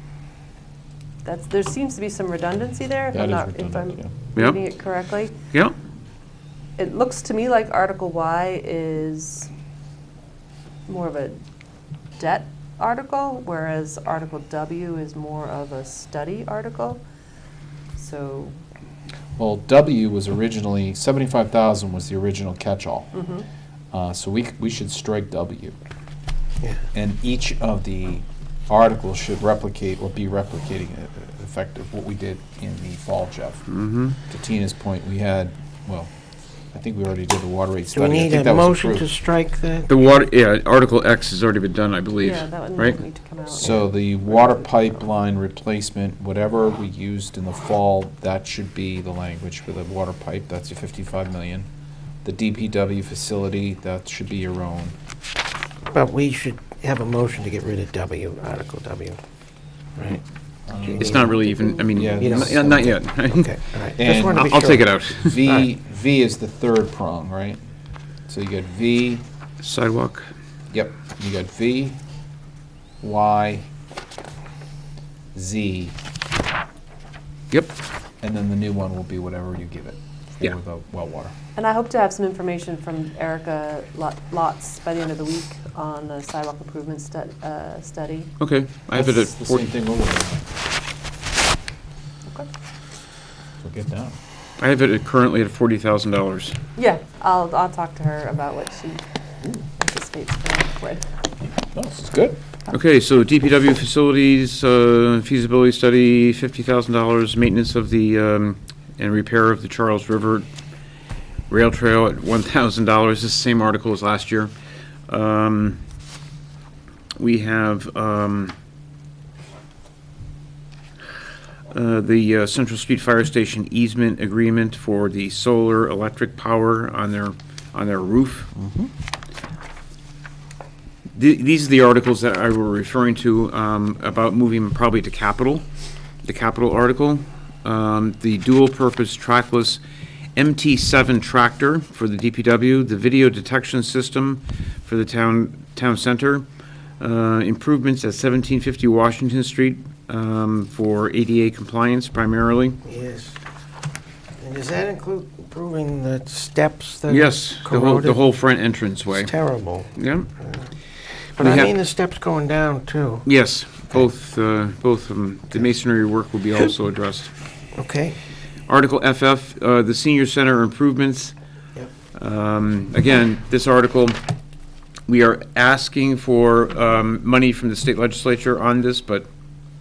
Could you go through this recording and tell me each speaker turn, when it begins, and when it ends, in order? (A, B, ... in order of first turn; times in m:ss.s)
0:01.2-0:05.3 A
0:03.1-0:04.1 B
0:06.8-0:09.5 A
0:10.9-0:11.4 A
0:12.2-0:17.0 A
0:18.0-0:18.6 A
0:19.4-0:23.1 B
0:23.1-0:23.4 A
0:23.9-0:25.8 B
0:26.9-0:33.6 B
0:33.7-0:34.2 C
0:34.3-0:36.1 B
0:36.7-0:39.1 B
0:37.9-0:39.9 D
0:39.9-0:43.0 C
0:42.2-0:43.9 A
0:43.6-0:51.7 B
0:52.2-0:55.0 B
0:55.9-0:59.2 D
1:00.7-1:03.0 B
1:00.7-1:01.4 D
1:01.0-1:05.4 C
1:01.5-1:02.1 A
1:02.2-1:05.7 D
1:04.0-1:04.5 B
1:05.2-1:07.6 B
1:08.3-1:09.2 B
1:09.6-1:10.3 C
1:10.7-1:12.0 B
1:13.0-1:13.7 B
1:15.3-1:16.0 B
1:18.2-1:21.3 B
1:21.6-1:28.3 A
1:28.4-1:29.7 C
1:28.9-1:30.5 B
1:33.6-1:34.2 B
1:34.6-1:36.6 C
1:36.8-1:39.0 A
1:39.6-1:41.0 A
1:41.7-1:42.4 B
1:42.7-1:50.5 C
1:51.5-1:54.5 C
1:55.1-1:55.8 C
1:57.2-1:58.6 C
2:01.7-2:08.5 C
2:11.1-2:15.6 C
2:16.2-2:19.8 C
2:20.4-2:26.5 C
2:27.0-2:32.8 C
2:32.8-2:33.4 D
2:34.4-2:38.2 D
2:37.1-2:39.3 C
2:39.1-2:40.7 D
2:40.0-2:40.3 C
2:41.4-2:43.3 D
2:41.4-2:41.7 C
2:43.2-2:47.3 C
2:47.8-2:48.2 D
2:48.7-2:51.3 C
2:52.1-2:54.2 C
2:55.1-2:59.3 C